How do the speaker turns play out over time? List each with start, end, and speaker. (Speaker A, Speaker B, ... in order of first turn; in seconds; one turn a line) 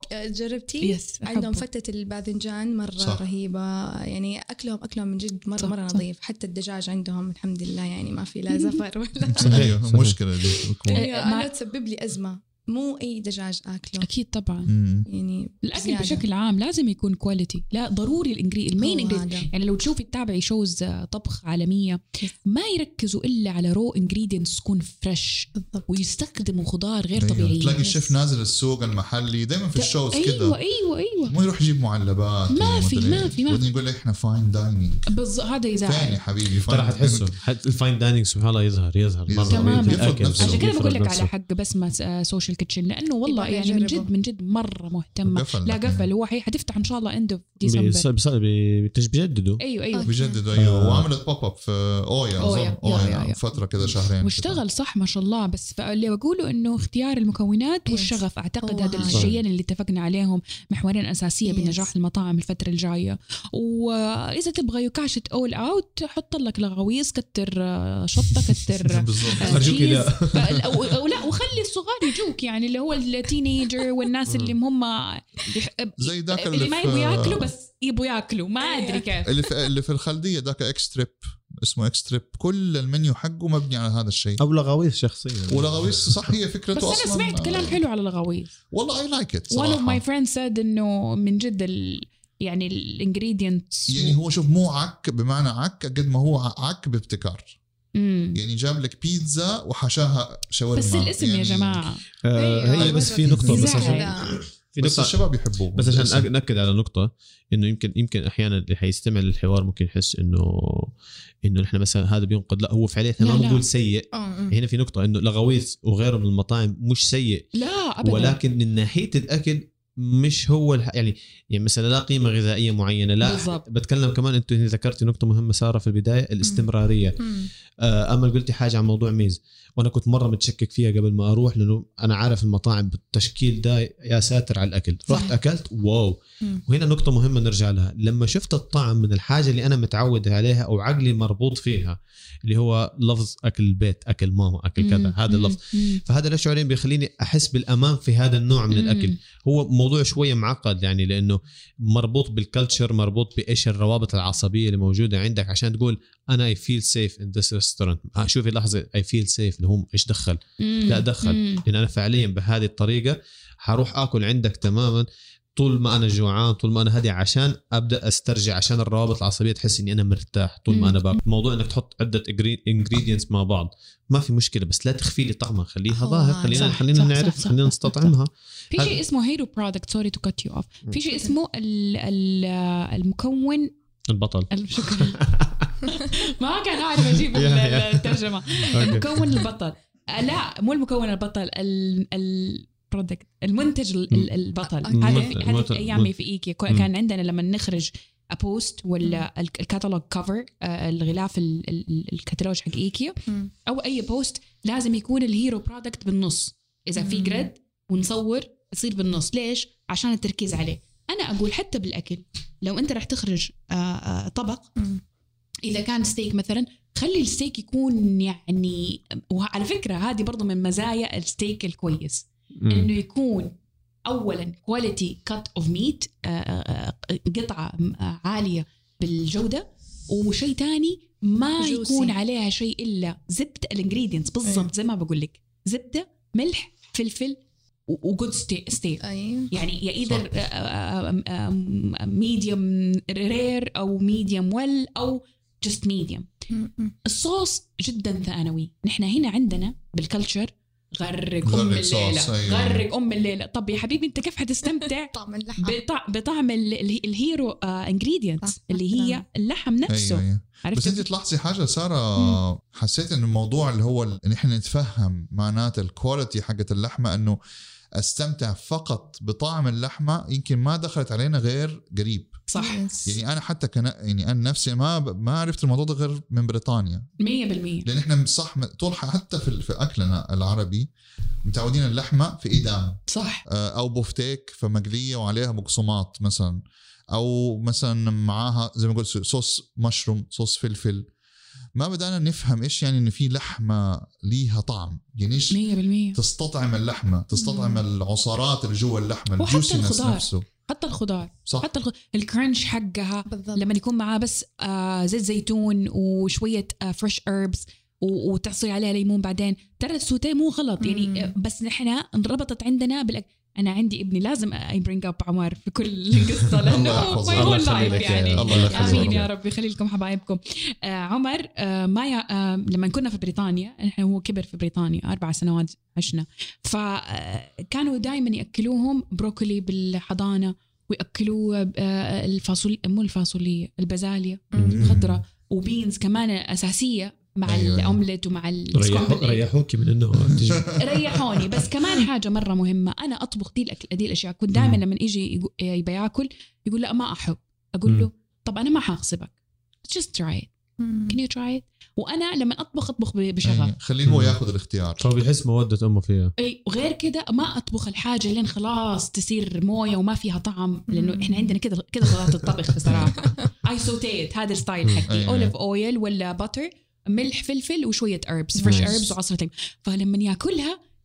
Speaker A: 0.1-9.7
Speaker B: 0.8-1.6
Speaker B: 5.6-6.0
Speaker B: 8.5-8.8
Speaker C: 9.4-11.0
Speaker D: 9.4-10.7
Speaker A: 10.9-14.1
Speaker B: 10.9-11.5
Speaker B: 14.0-14.7
Speaker C: 14.7-15.1
Speaker A: 15.1-16.2
Speaker B: 15.6-28.1
Speaker A: 18.8-19.5
Speaker A: 25.6-25.9
Speaker C: 27.2-30.6
Speaker B: 29.8-31.4
Speaker C: 31.3-35.0
Speaker B: 32.5-33.6
Speaker B: 35.1-36.2
Speaker C: 35.8-37.3
Speaker D: 36.7-41.3
Speaker C: 39.3-40.7
Speaker B: 39.5-48.1
Speaker A: 43.3-44.1
Speaker C: 45.3-46.1
Speaker D: 47.6-49.6
Speaker B: 49.6-50.1
Speaker A: 49.9-50.4
Speaker C: 50.1-54.6
Speaker D: 50.5-51.1
Speaker B: 52.4-53.4
Speaker B: 54.2-79.5
Speaker A: 57.9-59.3
Speaker D: 59.1-59.4
Speaker A: 61.5-61.9
Speaker C: 68.8-69.8
Speaker D: 69.4-70.9
Speaker D: 74.3-74.5
Speaker C: 76.0-77.5
Speaker A: 78.6-79.1
Speaker C: 79.2-84.4
Speaker D: 84.4-86.2
Speaker C: 85.5-87.8
Speaker B: 86.8-88.5
Speaker C: 88.7-90.0
Speaker B: 89.5-94.2
Speaker C: 93.9-97.6
Speaker B: 98.0-98.4
Speaker C: 98.3-101.9
Speaker B: 100.8-102.0
Speaker D: 102.2-110.9
Speaker A: 102.3-104.4
Speaker C: 102.8-103.5
Speaker B: 103.5-104.1
Speaker C: 104.8-106.3
Speaker D: 111.4-127.2
Speaker B: 113.2-113.7
Speaker A: 114.1-114.5
Speaker B: 117.5-118.4
Speaker B: 123.2-123.7
Speaker A: 126.4-126.7
Speaker A: 127.2-127.5
Speaker D: 127.8-165.1
Speaker B: 144.8-146.0
Speaker B: 148.7-149.2
Speaker B: 160.6-161.6
Speaker D: 165.6-179.0
Speaker B: 170.7-171.0
Speaker A: 175.9-176.8
Speaker B: 176.5-178.1
Speaker B: 178.7-183.7
Speaker D: 184.1-185.8
Speaker B: 184.5-185.2
Speaker B: 185.9-214.7
Speaker D: 187.0-189.4
Speaker A: 194.6-195.4
Speaker D: 194.9-196.1
Speaker A: 199.0-199.3
Speaker A: 207.0-207.5
Speaker B: 215.6-223.6
Speaker D: 222.6-222.9
Speaker B: 224.1-246.3
Speaker A: 231.6-232.2
Speaker A: 234.4-234.7
Speaker A: 239.0-239.5
Speaker A: 246.5-247.0
Speaker B: 247.1-261.1
Speaker C: 251.4-252.9
Speaker A: 254.7-255.8
Speaker A: 258.4-259.2
Speaker C: 259.9-267.4
Speaker C: 268.0-272.4
Speaker B: 272.5-273.1
Speaker A: 272.6-273.0
Speaker C: 273.1-277.1
Speaker B: 277.2-277.9
Speaker C: 277.8-280.9
Speaker C: 281.4-291.1
Speaker B: 283.1-283.4
Speaker C: 291.8-295.6
Speaker B: 295.5-296.2
Speaker C: 296.1-300.5
Speaker A: 297.4-297.8
Speaker B: 299.4-339.4
Speaker A: 303.3-303.7
Speaker A: 310.8-311.3
Speaker C: 316.6-319.3
Speaker D: 317.3-319.3
Speaker A: 318.6-319.0
Speaker A: 334.5-334.9
Speaker D: 334.6-335.0
Speaker C: 334.7-335.2
Speaker C: 337.4-338.0
Speaker D: 338.7-340.7
Speaker C: 340.3-341.5
Speaker B: 340.8-349.3
Speaker D: 344.5-344.8
Speaker B: 349.9-350.5
Speaker A: 350.8-351.2
Speaker B: 351.1-353.7
Speaker C: 353.4-355.0
Speaker D: 354.1-354.4
Speaker D: 355.0-356.3
Speaker B: 356.4-370.8
Speaker A: 360.9-361.6
Speaker D: 362.8-363.1
Speaker C: 365.1-365.5
Speaker A: 368.5-369.0
Speaker D: 368.6-369.1